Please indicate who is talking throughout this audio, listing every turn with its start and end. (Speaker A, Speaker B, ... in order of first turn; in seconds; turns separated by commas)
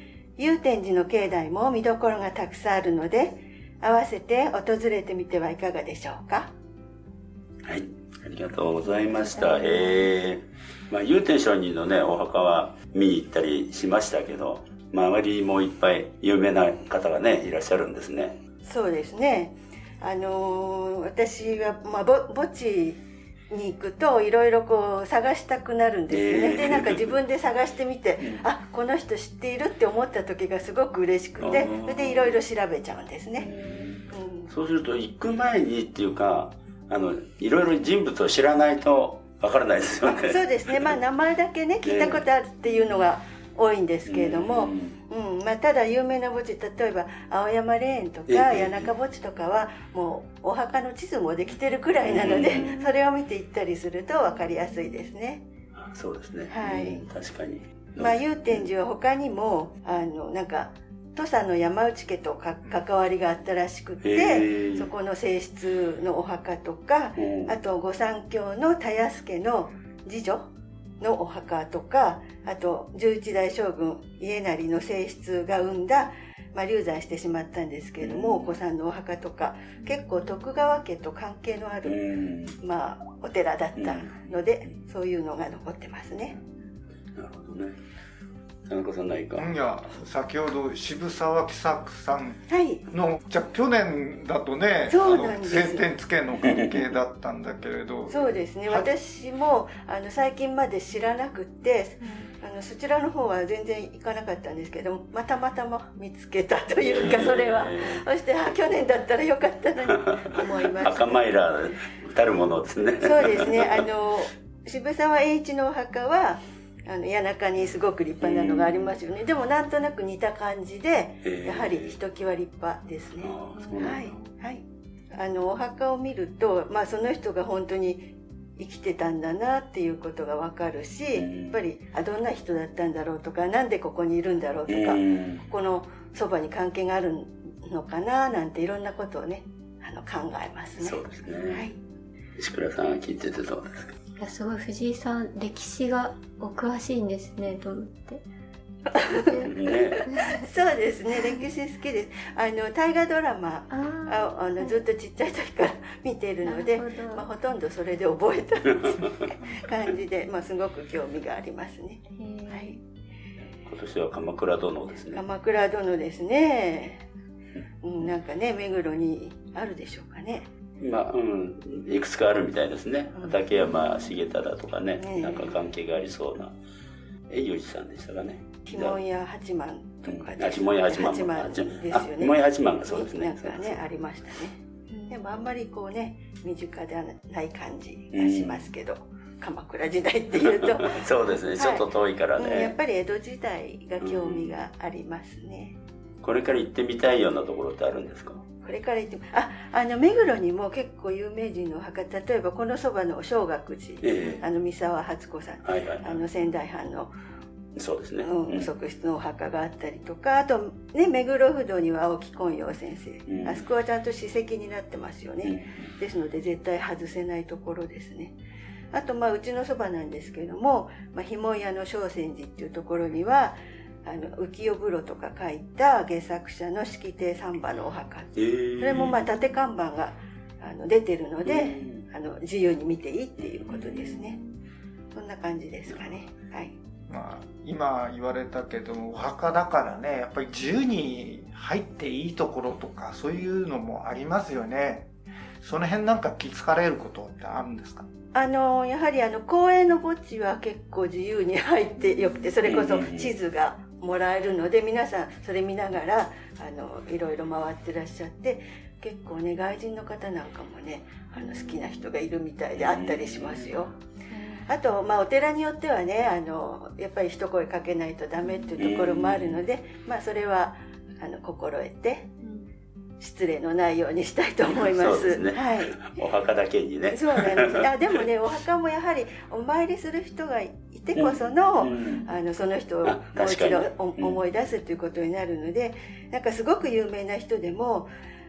Speaker A: 0.4-6.5, Speaker B: 7.7-18.4, Speaker A: 18.6-33.5, Speaker B: 26.1-27.1, Speaker B: 28.2-28.5, Speaker B: 31.4-32.4, Speaker B: 33.4-41.0, Speaker A: 34.1-34.5, Speaker A: 40.1-55.4, Speaker B: 41.8-42.2, Speaker B: 44.1-45.0, Speaker B: 48.3-48.9, Speaker B: 52.0-52.7, Speaker C: 52.6-52.9, Speaker B: 55.8-58.7, Speaker A: 56.5-57.0, Speaker A: 58.0-70.5, Speaker B: 64.0-64.9, Speaker B: 67.2-67.5, Speaker A: 71.0-82.0, Speaker B: 78.0-78.5, Speaker B: 81.8-82.6, Speaker A: 82.6-86.4, Speaker B: 83.8-84.8, Speaker B: 87.1-87.8, Speaker B: 88.7-89.5, Speaker D: 89.4-98.9, Speaker A: 92.5-92.8, Speaker A: 94.9-95.9, Speaker B: 96.4-96.8, Speaker A: 98.1-111.2, Speaker B: 106.8-108.0, Speaker B: 110.4-113.9, Speaker A: 113.0-141.8, Speaker B: 118.2-119.0, Speaker B: 121.2-122.0, Speaker B: 123.2-124.0, Speaker B: 131.1-131.6, Speaker B: 134.7-135.4, Speaker B: 140.8-141.7, Speaker B: 142.4-143.9, Speaker C: 144.2-148.2, Speaker C: 149.1-149.5, Speaker B: 149.4-150.0, Speaker C: 150.1-150.4, Speaker A: 150.3-162.8, Speaker C: 153.7-154.8, Speaker C: 156.5-157.3, Speaker C: 162.2-162.8, Speaker B: 163.6-165.2, Speaker A: 165.1-167.0, Speaker A: 167.8-170.5, Speaker B: 170.8-176.5, Speaker A: 175.0-175.5, Speaker B: 177.3-179.0, Speaker A: 178.7-184.6, Speaker B: 180.1-183.8, Speaker C: 184.9-185.2, Speaker A: 185.1-195.8, Speaker B: 188.1-188.7, Speaker B: 190.4-192.7, Speaker B: 194.0-194.5, Speaker B: 196.2-198.4, Speaker A: 198.6-207.1, Speaker B: 204.0-204.4, Speaker B: 205.6-206.2, Speaker B: 207.8-208.7, Speaker A: 208.2-218.4, Speaker B: 213.3-213.7, Speaker B: 215.4-215.9, Speaker A: 218.9-234.4, Speaker B: 228.4-229.3, Speaker B: 231.4-232.0, Speaker B: 233.4-234.1, Speaker C: 234.2-234.6, Speaker A: 235.1-236.8, Speaker D: 237.1-245.1, Speaker D: 245.6-248.1, Speaker A: 248.3-263.9, Speaker B: 252.6-253.3, Speaker B: 262.8-263.9, Speaker C: 264.3-264.7, Speaker A: 264.6-272.3, Speaker B: 268.8-269.6, Speaker C: 272.4-272.7, Speaker A: 273.2-276.1, Speaker B: 274.6-277.9, Speaker A: 277.1-288.1, Speaker B: 281.1-282.3, Speaker B: 283.1-284.4